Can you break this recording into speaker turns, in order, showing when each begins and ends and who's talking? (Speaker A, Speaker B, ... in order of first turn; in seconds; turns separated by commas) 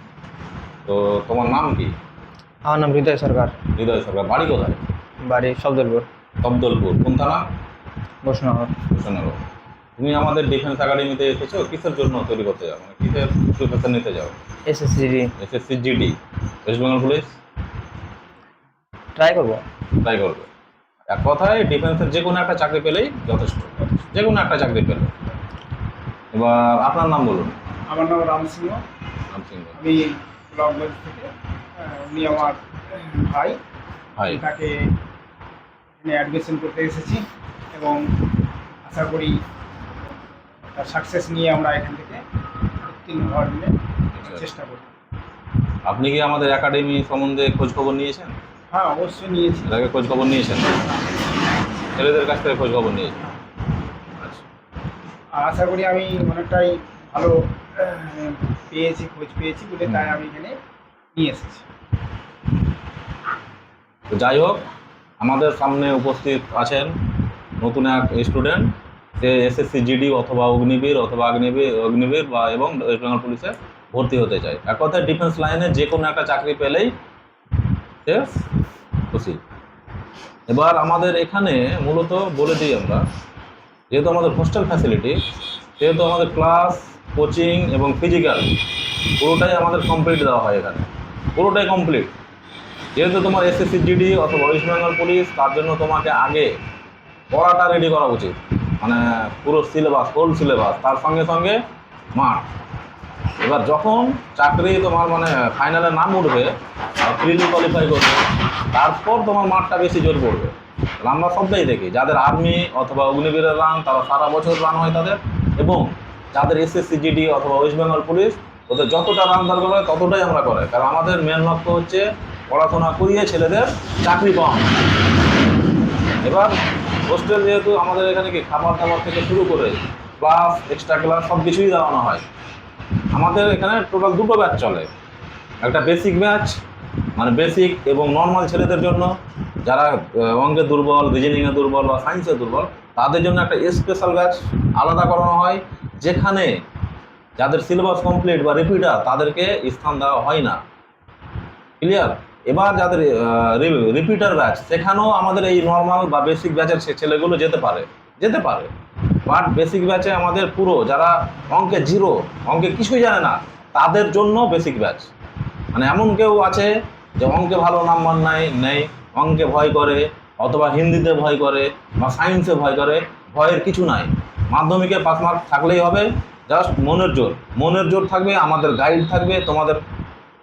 Speaker A: 0.9-1.9, Speaker B: 2.6-3.6, Speaker A: 3.8-4.8, Speaker B: 5.2-6.1, Speaker A: 6.4-7.5, Speaker B: 8.2-8.8, Speaker A: 8.9-9.4, Speaker A: 10.0-14.4, Speaker B: 14.7-15.3, Speaker A: 15.4-17.4, Speaker B: 19.2-19.6, Speaker A: 19.9-20.5, Speaker A: 21.1-25.1, Speaker A: 26.3-27.6, Speaker C: 27.9-28.8, Speaker A: 29.3-29.7, Speaker C: 29.8-33.6, Speaker A: 34.2-34.4, Speaker C: 34.3-34.8, Speaker C: 36.0-38.2, Speaker C: 38.8-39.4, Speaker C: 40.8-42.2, Speaker C: 42.8-44.9, Speaker A: 45.9-48.4, Speaker C: 48.7-49.8, Speaker A: 49.7-51.0, Speaker A: 52.0-53.2, Speaker A: 54.2-54.4, Speaker C: 55.4-60.6, Speaker A: 59.9-60.2, Speaker C: 61.1-61.6, Speaker A: 64.1-64.7, Speaker A: 65.2-67.0, Speaker A: 67.6-76.9, Speaker A: 78.0-78.4, Speaker A: 79.1-79.4, Speaker A: 80.5-83.1, Speaker A: 83.9-85.2, Speaker A: 85.8-92.1, Speaker A: 93.0-96.5, Speaker A: 97.3-101.6, Speaker A: 102.1-102.5, Speaker A: 103.4-124.7, Speaker A: 126.2-126.5, Speaker A: 127.1-132.2, Speaker A: 133.1-134.9, Speaker A: 135.6-136.6, Speaker A: 137.2-146.6, Speaker A: 147.4-150.6, Speaker A: 151.8-158.7, Speaker A: 159.2-165.1, Speaker A: 165.7-179.8